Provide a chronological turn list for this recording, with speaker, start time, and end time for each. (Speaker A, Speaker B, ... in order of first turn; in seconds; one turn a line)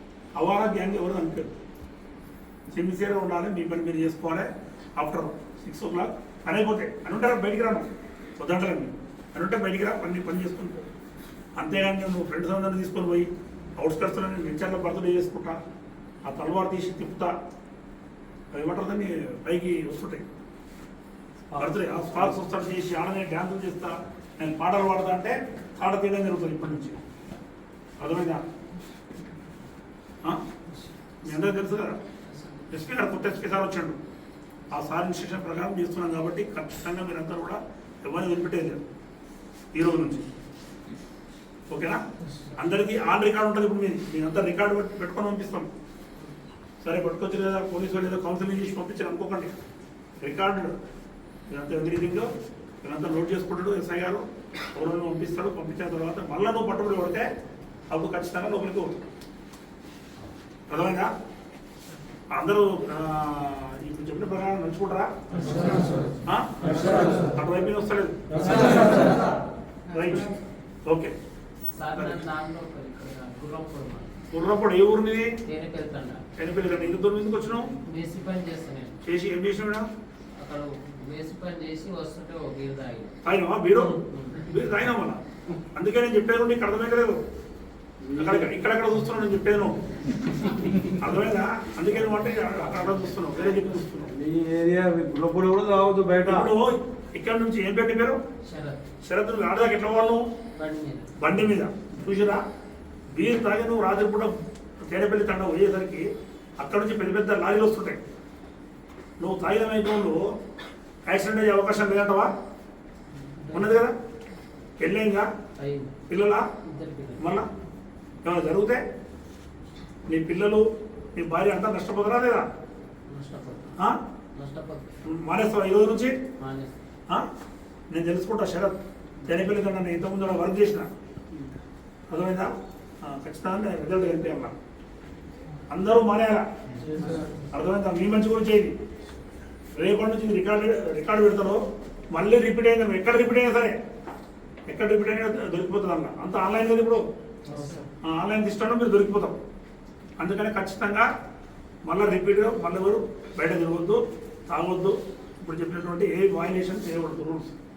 Speaker A: 0.4-1.5
Speaker A: 2.7-7.9
Speaker A: 8.4-10.9
Speaker A: 11.6-15.6
Speaker A: 16.2-17.3
Speaker A: 18.5-20.3
Speaker B: 21.5-22.3
Speaker A: 21.6-27.0
Speaker A: 28.0-28.4
Speaker A: 31.2-32.0
Speaker A: 32.7-34.0
Speaker A: 34.7-38.8
Speaker A: 39.7-40.3
Speaker A: 41.7-42.0
Speaker A: 42.6-45.7
Speaker A: 46.8-49.5
Speaker A: 50.2-50.7
Speaker A: 51.5-52.3
Speaker A: 52.8-57.3
Speaker A: 57.9-59.0
Speaker A: 60.7-61.1
Speaker A: 62.3-65.6
Speaker C: 65.5-65.9
Speaker A: 66.2-69.1
Speaker C: 68.7-69.0
Speaker A: 69.9-70.3
Speaker A: 70.9-71.1
Speaker C: 71.7-74.1
Speaker A: 72.0-72.2
Speaker A: 74.3-75.4
Speaker C: 75.5-76.3
Speaker A: 76.4-77.8
Speaker C: 77.7-79.0
Speaker A: 79.0-79.9
Speaker C: 80.4-83.2
Speaker A: 83.2-85.2
Speaker C: 83.8-84.4
Speaker A: 85.7-87.2
Speaker B: 88.0-88.5
Speaker A: 88.2-89.8
Speaker A: 90.8-94.2
Speaker B: 94.1-96.5
Speaker A: 96.3-98.2
Speaker C: 98.4-98.8
Speaker A: 99.0-100.3
Speaker C: 100.6-101.2
Speaker A: 101.2-102.4
Speaker A: 103.1-104.4
Speaker A: 104.9-106.1
Speaker A: 106.6-108.0
Speaker A: 109.2-110.2
Speaker A: 111.1-112.3
Speaker C: 113.2-113.8
Speaker A: 113.5-113.9
Speaker A: 114.8-115.3
Speaker C: 115.6-116.0
Speaker A: 116.1-116.5
Speaker C: 116.6-117.4
Speaker A: 117.2-117.5
Speaker A: 118.2-118.8
Speaker A: 120.1-122.5
Speaker C: 123.1-123.8
Speaker C: 124.3-125.0
Speaker A: 125.0-126.2
Speaker C: 126.4-126.8
Speaker A: 127.9-130.9
Speaker A: 132.1-134.6
Speaker A: 135.7-136.5
Speaker B: 136.9-137.2
Speaker A: 137.5-138.8
Speaker A: 139.7-143.8
Speaker A: 144.7-147.0
Speaker C: 147.5-147.9
Speaker B: 147.5-147.8
Speaker A: 148.0-149.4
Speaker A: 150.2-151.1
Speaker A: 151.8-157.5